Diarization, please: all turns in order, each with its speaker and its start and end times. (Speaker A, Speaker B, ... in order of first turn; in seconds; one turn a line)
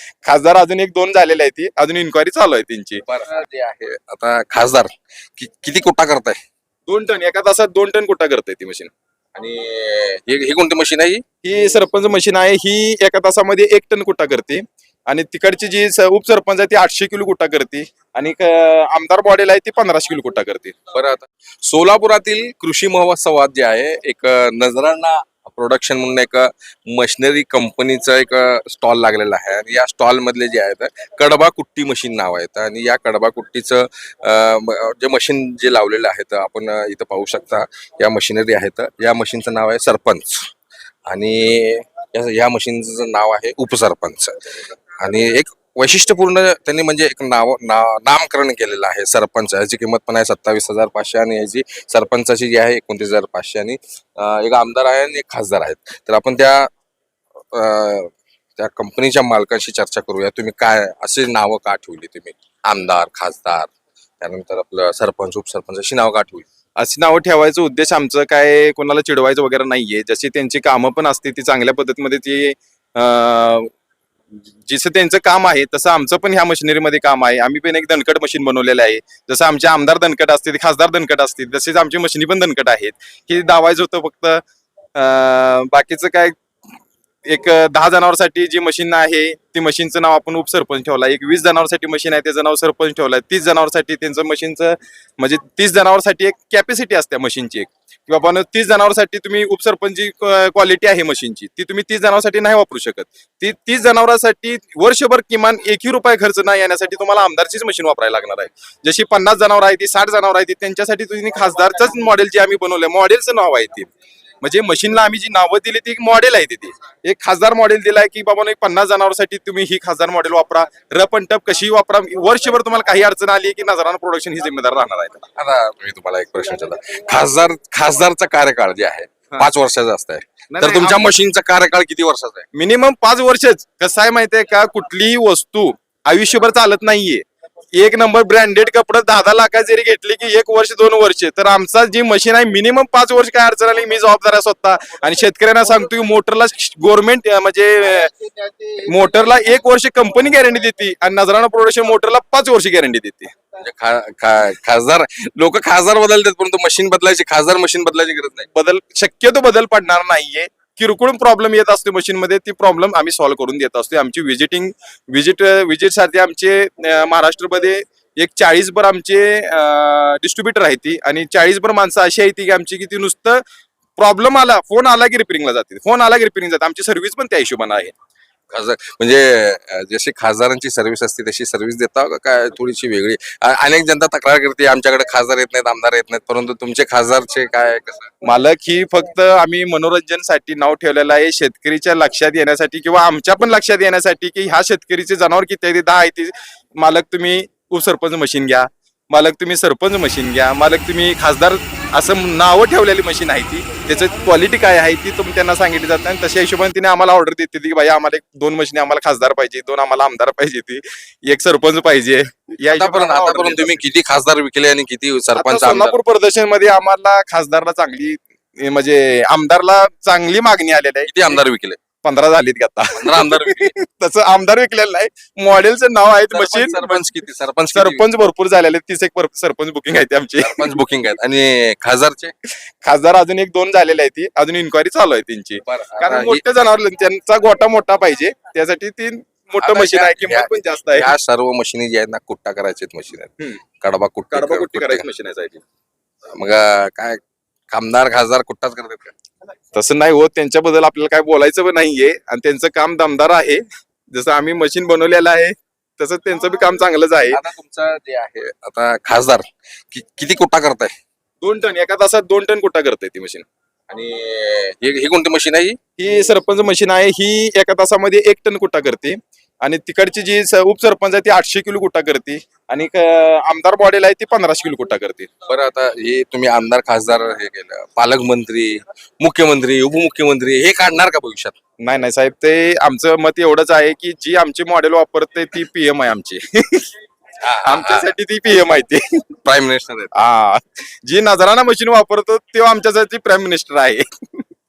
Speaker A: 0.2-3.0
Speaker B: 3.1-6.4
Speaker A: 6.9-8.9
Speaker B: 9.3-11.2
Speaker A: 11.4-20.8
Speaker B: 20.9-40.5
Speaker B: 41.1-56.7
Speaker B: 57.5-63.7
Speaker B: 64.2-66.5
Speaker A: 66.8-73.7
Speaker A: 74.7-84.4
Speaker A: 85.0-86.3
Speaker A: 87.3-113.9
Speaker A: 114.4-125.3
Speaker B: 125.4-132.5
Speaker A: 130.5-131.1
Speaker A: 132.5-137.2
Speaker A: 137.7-148.2
Speaker A: 148.7-153.3
Speaker B: 153.6-158.5
Speaker A: 158.5-173.4
Speaker A: 174.0-177.9
Speaker B: 178.5-188.1
Speaker A: 188.2-213.8
Speaker B: 212.7-216.0
Speaker A: 215.3-221.4
Speaker B: 221.1-221.8
Speaker A: 222.0-227.0
Speaker B: 223.0-223.7
Speaker B: 226.3-228.1
Speaker A: 227.7-230.7
Speaker B: 230.4-232.3
Speaker A: 232.8-241.2
Speaker B: 235.7-236.4
Speaker B: 239.6-245.1
Speaker A: 244.3-245.6
Speaker B: 246.3-247.2
Speaker B: 247.7-249.1
Speaker A: 249.7-257.4
Speaker B: 257.3-260.9
Speaker A: 261.4-263.5
Speaker B: 263.9-265.8
Speaker A: 266.0-275.3
Speaker B: 275.5-281.6
Speaker A: 281.8-286.9
Speaker B: 287.4-288.1
Speaker A: 287.6-289.2
Speaker B: 289.4-290.1
Speaker A: 290.1-294.4